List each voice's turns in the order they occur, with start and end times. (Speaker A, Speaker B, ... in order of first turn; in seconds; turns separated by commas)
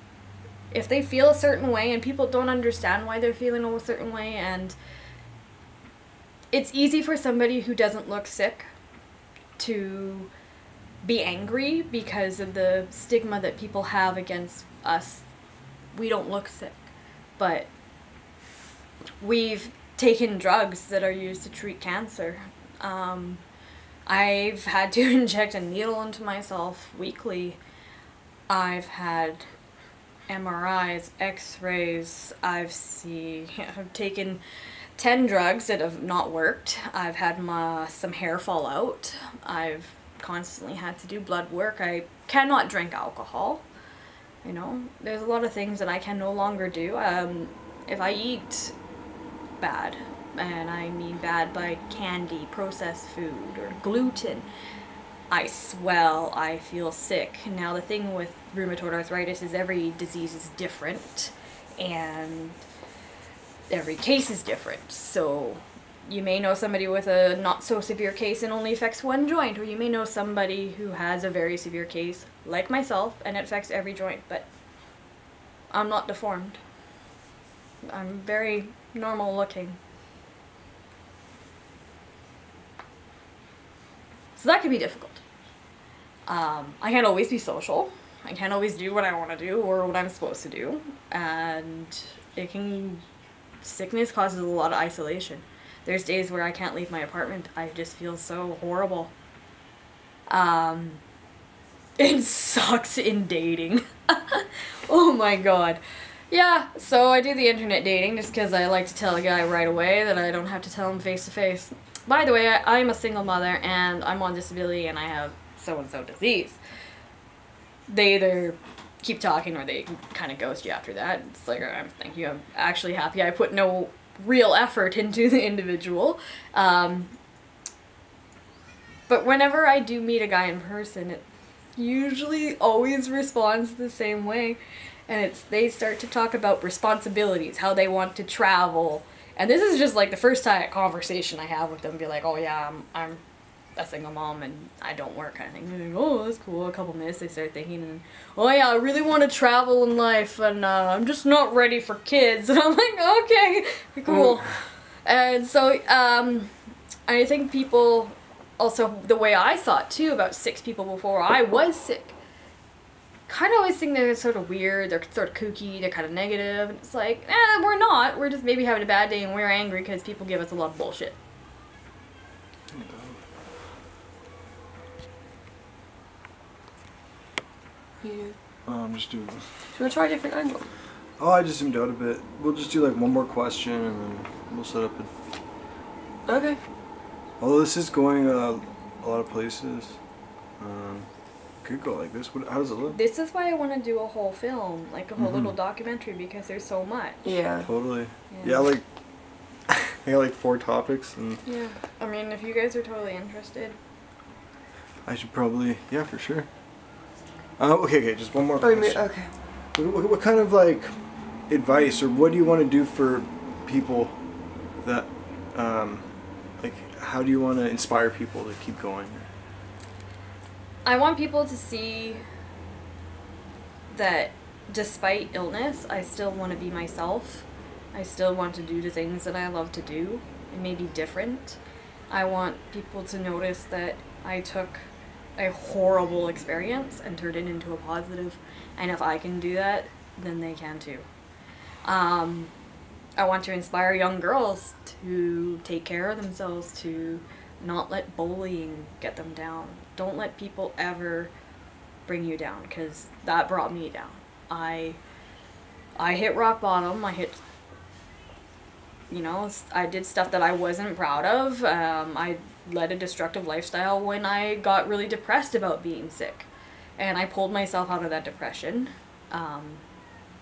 Speaker A: 0.7-4.8, Speaker A: 6.5-8.7, Speaker A: 9.6-10.3, Speaker A: 11.0-15.3, Speaker A: 15.9-17.7, Speaker A: 19.2-23.4, Speaker A: 24.1-27.6, Speaker A: 28.5-29.4, Speaker A: 30.3-34.4, Speaker A: 35.0-43.6, Speaker A: 44.4-48.8, Speaker A: 49.6-54.5, Speaker A: 55.3-62.6, Speaker A: 63.7-74.5, Speaker A: 75.7-76.6, Speaker A: 77.8-79.8, Speaker A: 84.3-85.2, Speaker A: 86.3-93.0, Speaker A: 93.6-99.1, Speaker A: 100.3-101.0, Speaker A: 102.0-105.8, Speaker A: 106.3-116.6, Speaker A: 117.9-127.1, Speaker A: 129.1-131.2, Speaker A: 131.8-143.2, Speaker A: 143.8-156.5, Speaker A: 157.1-162.2, Speaker A: 163.3-171.2, Speaker B: 172.7-173.2, Speaker C: 178.0-178.3, Speaker B: 178.7-179.4, Speaker C: 179.7-180.7, Speaker B: 181.2-185.1, Speaker C: 186.3-186.6, Speaker B: 187.4-190.0, Speaker B: 190.6-191.1, Speaker B: 191.6-193.0, Speaker A: 192.9-197.2, Speaker B: 195.2-195.5, Speaker C: 197.2-197.7, Speaker B: 197.6-198.8, Speaker A: 198.3-198.7, Speaker B: 199.7-201.4, Speaker A: 201.4-203.8, Speaker B: 205.1-206.5, Speaker B: 207.6-209.2, Speaker C: 208.6-209.3, Speaker B: 209.7-210.9, Speaker B: 211.5-214.2, Speaker B: 214.8-219.3, Speaker A: 220.8-222.2, Speaker A: 223.9-231.6, Speaker A: 232.1-241.1, Speaker A: 241.8-242.5, Speaker A: 243.2-251.3, Speaker A: 252.1-255.0, Speaker A: 256.0-257.4, Speaker A: 259.1-269.8